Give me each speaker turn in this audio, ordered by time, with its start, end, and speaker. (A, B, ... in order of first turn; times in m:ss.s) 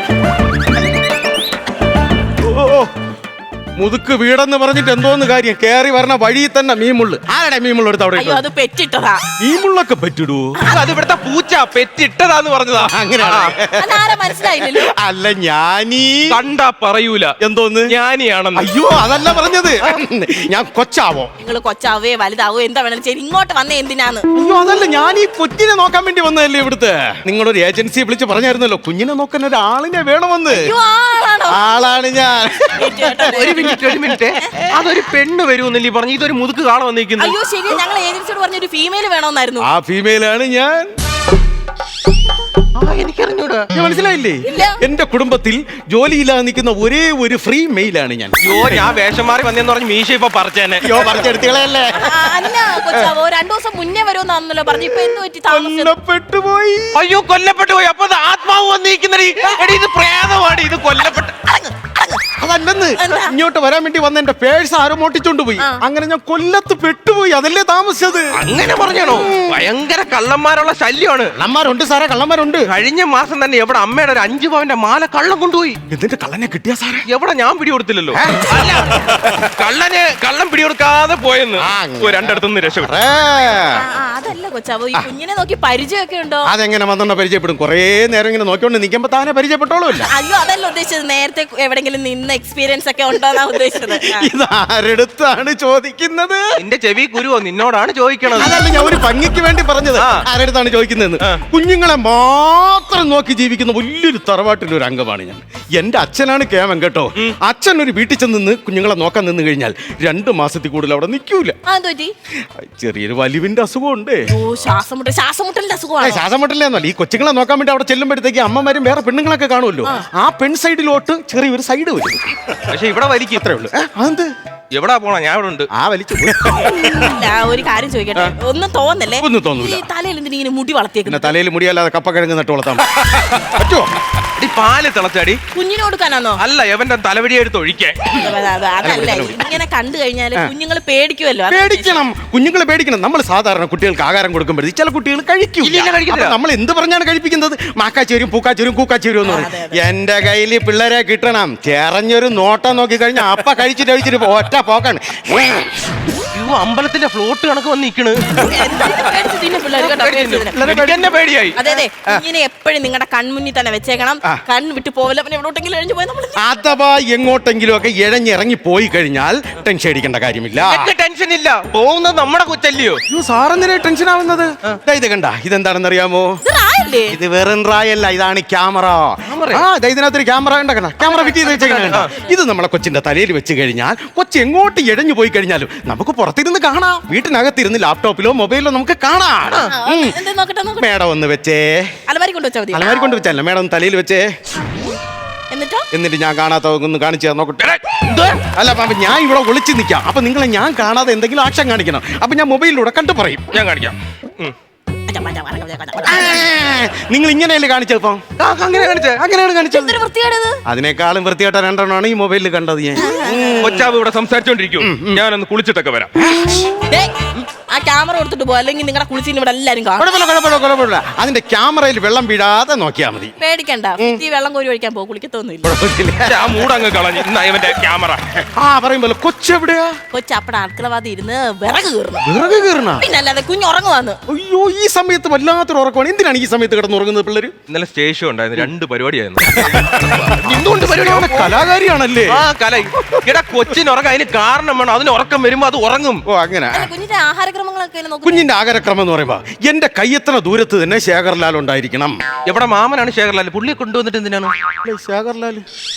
0:02.4-0:02.9 A
0:03.8-0:08.4 A
0:08.2-0:09.2 B
0:09.4-0:10.5 A
0:10.7-0:13.5 C
0:12.9-0:16.4 A
0:13.8-0:14.9 B
0:16.3-0:17.4 C
0:17.4-0:17.9 A
0:17.9-0:18.7 C
0:18.5-0:21.3 A
0:21.4-0:24.3 B
0:24.3-0:30.7 A
0:30.5-0:31.6 B
0:31.5-0:34.3 A
0:32.8-0:33.7 B
0:33.3-0:37.4 C
0:37.2-0:39.7 B
0:39.6-0:40.9 A
0:42.8-0:43.7 C
0:43.7-0:48.9 A
0:44.4-0:44.8 B
0:48.4-0:51.3 C
0:50.8-0:53.1 A
0:51.9-0:55.9 B
0:54.8-0:56.9 A
0:56.9-1:01.7 C
1:02.4-1:08.3 A
1:03.0-1:03.3 B
1:08.4-1:11.3 C
1:09.1-1:09.6 A
1:11.3-1:12.7 A
1:12.6-1:15.8 C
1:15.9-1:17.0 A
1:17.0-1:23.0 C
1:18.1-1:19.5 A
1:21.6-1:23.8 A
1:23.7-1:26.5 B
1:26.4-1:30.1 A
1:30.0-1:34.3 B
1:33.4-1:36.4 A
1:36.6-1:38.6 C
1:38.3-1:51.6 A
1:39.9-1:40.2 C
1:51.6-1:52.1 B
1:52.6-1:54.3 A
1:54.3-1:56.2 B
1:56.0-2:02.6 A
2:02.7-2:03.4 C
2:03.4-2:04.3 A
2:04.7-2:05.7 C
2:05.7-2:07.2 A
2:06.9-2:11.3 B
2:09.2-2:09.8 A
2:11.0-2:14.0 A
2:14.4-2:15.4 C
2:15.5-2:16.4 B
2:16.4-2:18.3 C
2:18.2-2:22.0 B
2:18.8-2:19.6 A
2:21.5-2:35.9 A
2:25.6-2:26.4 C
2:29.2-2:29.8 B
2:36.3-2:38.4 C
2:38.3-2:40.6 B
2:39.7-2:41.6 C
2:40.5-2:42.2 A
2:41.6-2:46.4 B
2:46.4-2:50.9 A
2:50.6-2:53.0 C
2:53.1-2:56.3 A
2:56.4-2:57.2 B
2:57.1-3:10.2 A
2:59.3-2:59.7 C
3:01.0-3:02.3 B
3:09.7-3:10.9 B
3:10.8-3:11.9 A
3:12.1-3:13.0 B
3:12.7-3:14.3 A
3:15.5-3:15.9 B
3:15.9-3:17.7 A
3:17.6-3:18.4 C
3:18.5-3:23.6 A
3:23.5-3:24.5 C
3:25.1-3:26.4 B
3:26.0-3:28.2 A
3:28.4-3:29.2 C
3:29.2-3:30.0 A
3:29.7-3:30.6 B
3:30.6-3:33.9 A
3:33.0-3:33.6 B
3:33.6-3:36.1 C
3:34.8-3:35.2 A
3:36.2-3:36.7 A
3:36.9-3:40.1 B
3:40.0-3:43.3 A
3:43.4-3:45.7 B
3:45.6-3:46.7 A
3:46.2-3:48.4 C
3:48.5-3:50.0 A
3:50.1-3:52.3 B
3:52.2-3:53.0 A
3:53.0-3:54.2 B
3:54.3-3:57.5 A
3:57.7-4:01.5 C
3:59.6-4:02.4 A
4:02.3-4:06.2 C
4:06.2-4:06.9 A
4:06.7-4:08.5 B
4:08.2-4:12.2 A
4:12.4-4:14.5 C
4:14.8-4:15.6 A